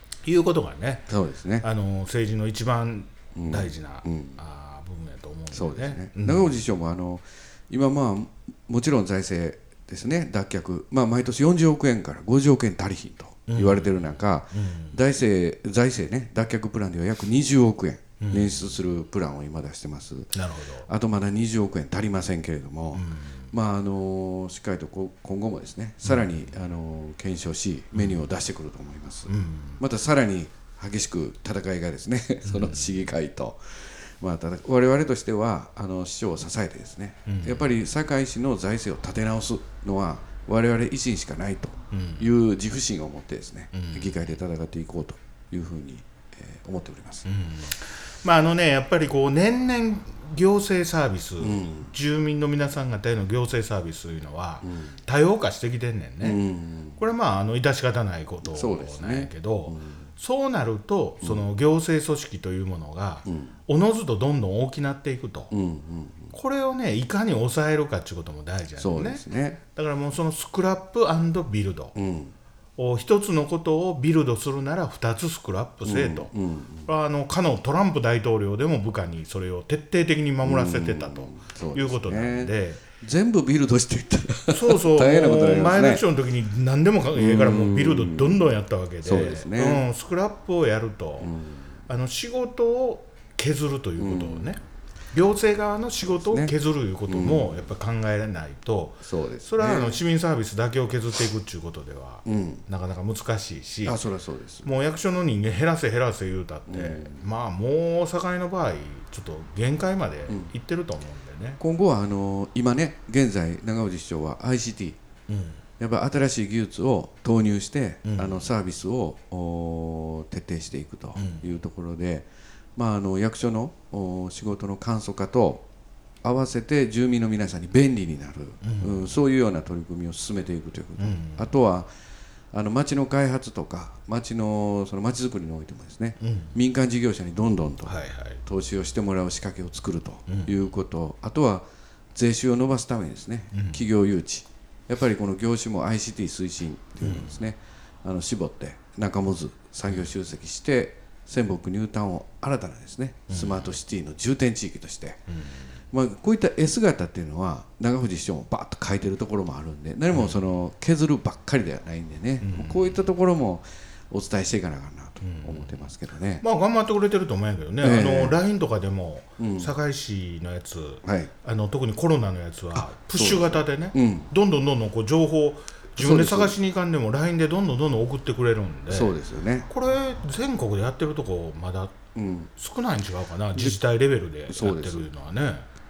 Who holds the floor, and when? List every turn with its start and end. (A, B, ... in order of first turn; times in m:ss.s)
0:00.2-0:01.1 A
0:01.1-0:01.6 B
0:01.6-0:06.6 A
0:03.3-0:04.4 B
0:05.5-0:20.3 B
0:13.5-0:15.0 A
0:18.2-0:18.7 A
0:20.3-0:20.9 A
0:20.8-0:47.2 B
0:22.9-0:23.5 A
0:26.0-0:26.4 A
0:27.9-0:28.2 A
0:29.3-0:29.8 A
0:32.4-0:33.0 A
0:37.3-0:37.7 A
0:41.9-0:42.3 A
0:43.7-0:44.3 A
0:47.2-0:56.4 A
0:51.4-0:51.9 B
0:54.6-0:55.0 B
0:56.2-0:57.0 B
0:57.0-1:05.5 A
0:58.4-1:00.1 B
1:03.2-1:03.5 B
1:05.5-1:06.3 B
1:06.3-1:11.9 A
1:08.8-1:09.6 B
1:11.9-1:12.3 B
1:12.8-1:16.3 A
1:15.8-1:16.9 B
1:16.8-1:22.8 A
1:20.4-1:26.0 B
1:24.5-1:31.3 A
1:27.2-1:28.5 B
1:29.0-1:29.8 B
1:31.2-1:31.7 B
1:31.9-1:34.6 A
1:34.0-1:34.5 B
1:35.1-1:44.0 A
1:36.1-1:36.5 B
1:37.1-1:37.6 B
1:39.0-1:40.0 B
1:42.2-1:42.6 B
1:43.8-1:44.7 B
1:44.6-1:51.6 A
1:46.7-1:47.2 B
1:51.6-1:55.0 B
1:55.3-1:55.6 A
1:55.8-2:05.6 B
1:58.0-1:58.4 A
2:01.2-2:01.5 A
2:06.2-2:11.9 B
2:08.6-2:09.1 A
2:11.0-2:11.5 A
2:12.5-2:35.2 B
2:16.2-2:16.5 A
2:17.8-2:18.4 A
2:20.3-2:20.6 A
2:23.5-2:23.8 A
2:27.0-2:27.4 A
2:33.3-2:33.8 A
2:35.3-2:35.8 A
2:35.9-2:46.4 B
2:40.1-2:40.4 A
2:42.4-2:43.0 A
2:45.2-2:45.8 A
2:46.4-2:59.1 A
2:47.8-2:48.4 B
2:49.4-2:49.7 B
2:51.0-2:51.3 B
2:52.7-2:54.3 B
2:56.0-2:56.6 B
2:58.9-2:59.7 B
2:59.7-3:02.0 A
3:02.1-3:02.5 B
3:02.6-3:05.7 A
3:03.5-3:03.8 B
3:04.5-3:05.1 B